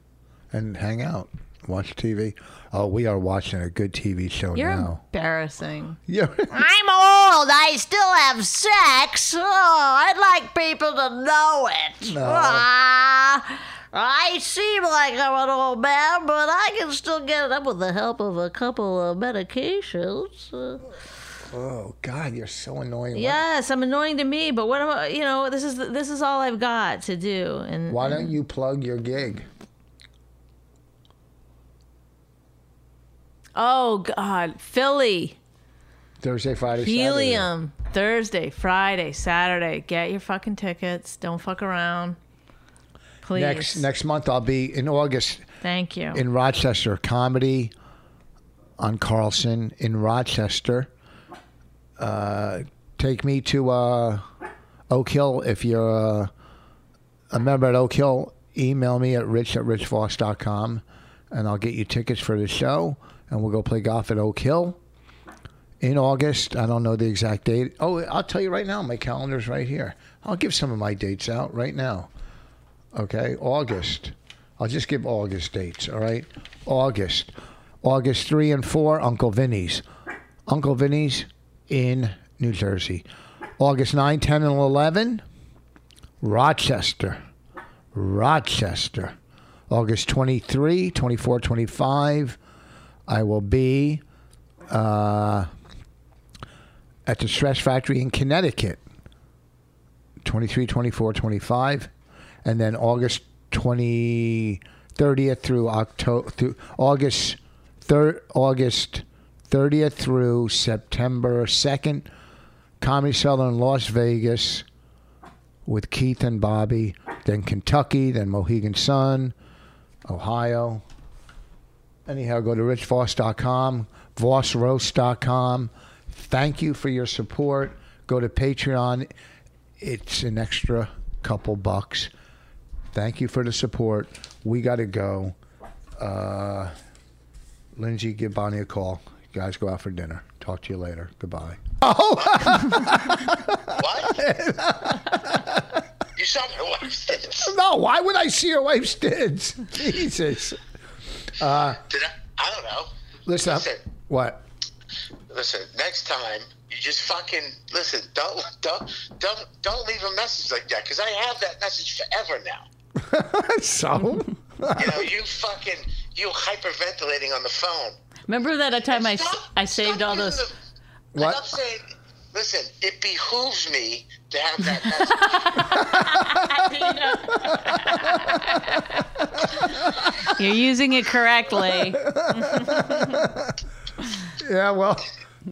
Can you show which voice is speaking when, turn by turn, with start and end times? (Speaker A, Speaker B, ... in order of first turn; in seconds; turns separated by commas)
Speaker A: 0.5-5.0, Speaker B: 4.5-6.0, Speaker A: 6.1-6.6, Speaker B: 6.5-20.8, Speaker A: 12.0-12.7, Speaker A: 21.5-23.4, Speaker B: 23.1-28.3, Speaker A: 27.9-29.5, Speaker B: 33.5-35.4, Speaker A: 36.2-37.5, Speaker B: 36.8-42.2, Speaker B: 43.2-43.9, Speaker A: 43.3-45.5, Speaker B: 45.6-46.2, Speaker A: 46.1-47.7, Speaker A: 48.8-50.9, Speaker A: 52.0-54.2, Speaker A: 54.9-56.3, Speaker A: 57.3-64.8, Speaker A: 65.8-72.1, Speaker A: 72.9-79.8, Speaker A: 80.5-83.0, Speaker A: 83.6-85.2, Speaker A: 86.2-87.2, Speaker A: 87.9-89.1, Speaker A: 89.7-92.4, Speaker A: 93.1-94.0, Speaker A: 94.7-95.5, Speaker A: 97.0-98.8, Speaker A: 100.2-101.9, Speaker A: 102.4-112.1, Speaker A: 112.8-114.7, Speaker A: 115.7-119.3, Speaker A: 120.1-120.8, Speaker A: 122.0-129.1, Speaker A: 129.8-132.1, Speaker A: 132.9-135.3, Speaker A: 136.0-136.7, Speaker A: 137.7-145.8, Speaker C: 143.7-144.2, Speaker C: 146.2-147.5, Speaker A: 147.4-150.6, Speaker A: 151.4-151.8, Speaker C: 151.9-152.9, Speaker A: 153.2-154.4, Speaker C: 153.4-153.8, Speaker C: 155.3-162.7, Speaker A: 163.0-165.1, Speaker C: 164.7-167.9, Speaker B: 168.3-170.4, Speaker C: 168.9-170.5, Speaker A: 171.1-171.4, Speaker C: 171.1-175.8, Speaker B: 175.1-179.0, Speaker A: 177.9-178.3, Speaker B: 179.6-183.2, Speaker A: 181.9-183.5, Speaker A: 184.4-185.1